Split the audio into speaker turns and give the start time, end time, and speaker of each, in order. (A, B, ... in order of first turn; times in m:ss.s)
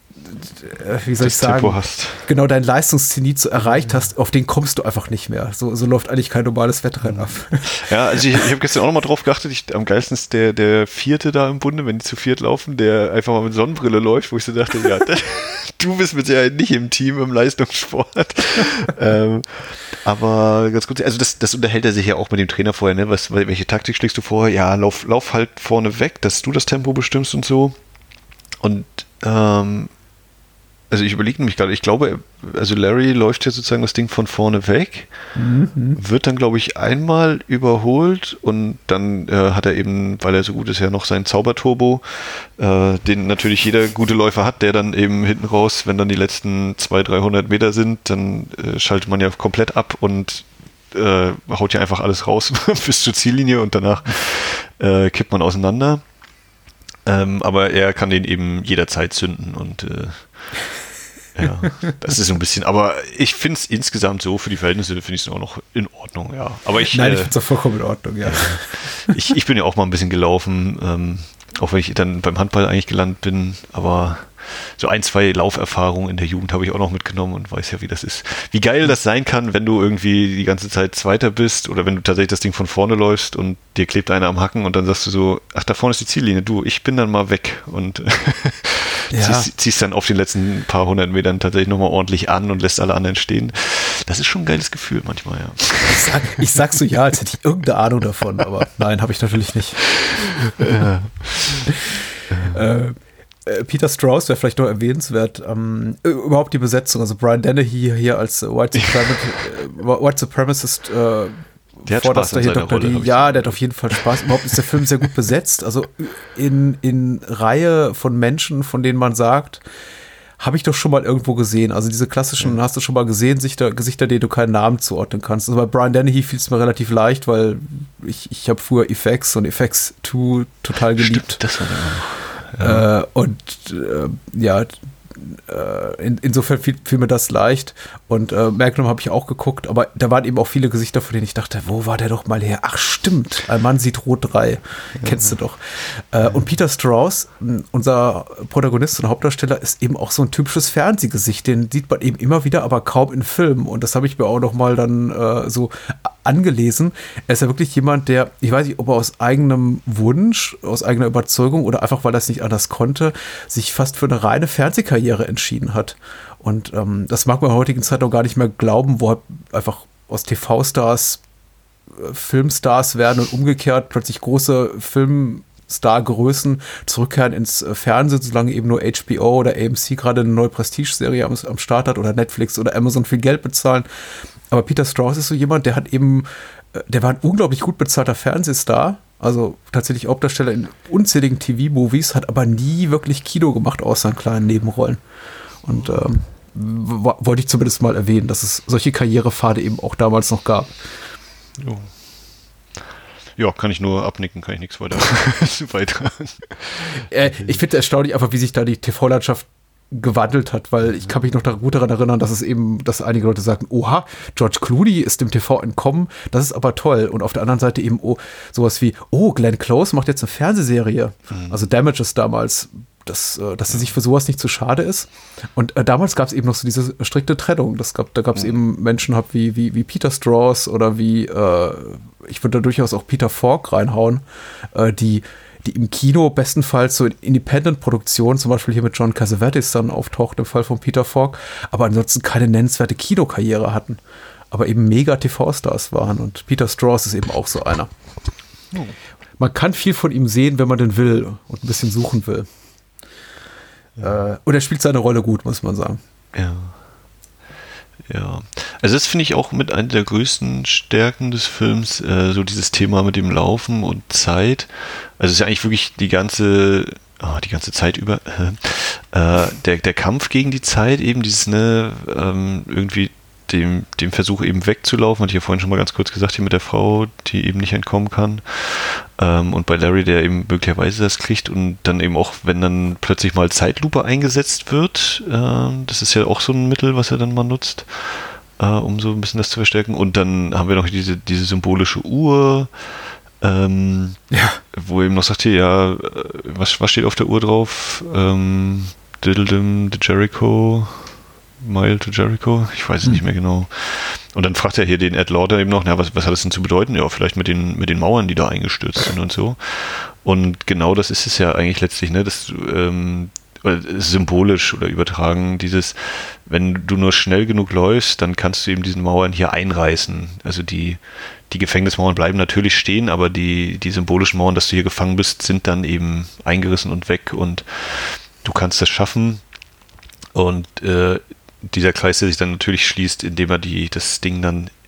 0:00.2-0:08.4 A
0:01.2-0:02.2 B
0:03.6-0:04.0 B
0:07.0-0:27.8 B
0:28.6-0:29.9 B
0:30.9-0:35.1 B
0:35.3-0:36.0 A
0:36.0-0:56.0 B
0:57.0-1:00.5 B
1:01.3-1:07.3 B
1:06.9-1:09.0 A
1:08.2-1:36.4 B
1:29.1-1:29.5 A
1:35.9-1:40.0 A
1:40.6-1:41.7 B
1:42.3-1:42.6 B
1:42.4-1:59.6 A
1:51.8-1:54.0 B
2:00.4-2:11.4 A
2:10.9-2:12.8 B
2:12.6-2:51.2 A
2:25.0-2:25.4 B
2:51.9-3:03.9 A
3:04.5-3:15.0 A
3:15.6-3:20.7 A
3:21.6-3:21.9 B
3:23.4-3:27.5 B
3:27.1-4:04.0 A
3:41.3-3:41.6 B
4:04.5-4:07.9 A
4:09.4-4:12.5 A
4:14.0-4:16.0 A
4:16.3-4:16.8 B
4:18.1-4:52.7 B
4:53.4-4:54.2 B
4:54.3-4:54.6 A
4:54.7-5:29.4 B
5:30.3-5:34.7 B